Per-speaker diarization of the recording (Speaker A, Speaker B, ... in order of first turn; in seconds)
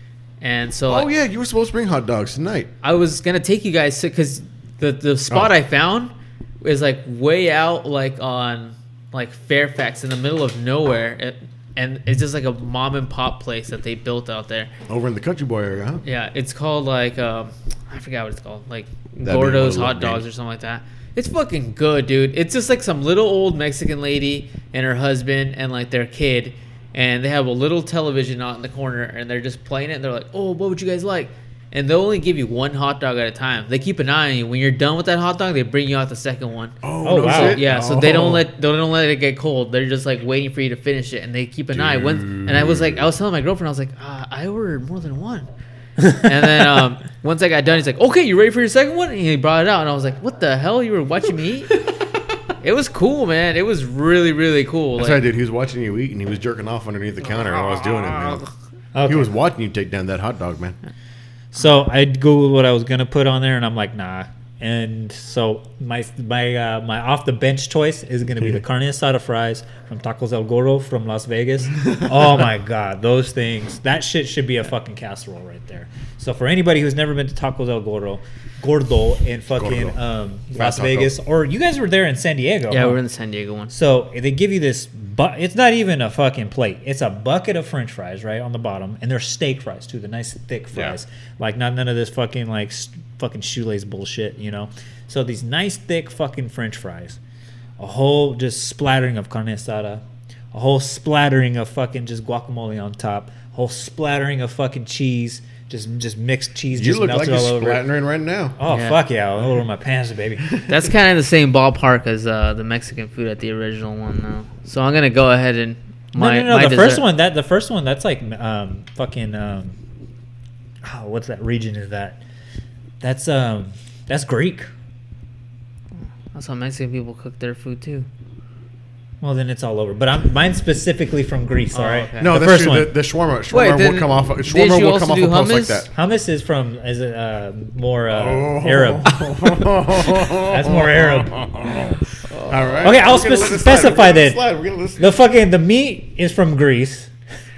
Speaker A: 0.4-1.1, 2.8-14.7, 16.1-45.5, 46.1-51.8, 52.6-55.2, 82.7-83.7, 108.7-109.0, 110.7-117.1, 126.3-128.1, 131.7-132.3, 133.5-135.9, 142.3-142.7
Speaker B: 0.9-2.7, 14.9-16.0, 19.2-20.2, 36.8-38.5, 41.7-43.1, 55.0-58.4, 59.1-60.8, 79.6-80.0, 80.5-81.2, 106.7-108.6, 132.2-135.9, 138.1-145.1
Speaker C: 37.0-37.6, 59.0-59.3, 61.5-83.0, 83.7-97.2, 97.8-107.8, 108.6-110.5, 116.2-119.8, 120.8-122.2, 123.0-124.7, 129.2-133.0, 135.9-139.2, 140.4-141.4, 142.8-144.4, 145.0-147.1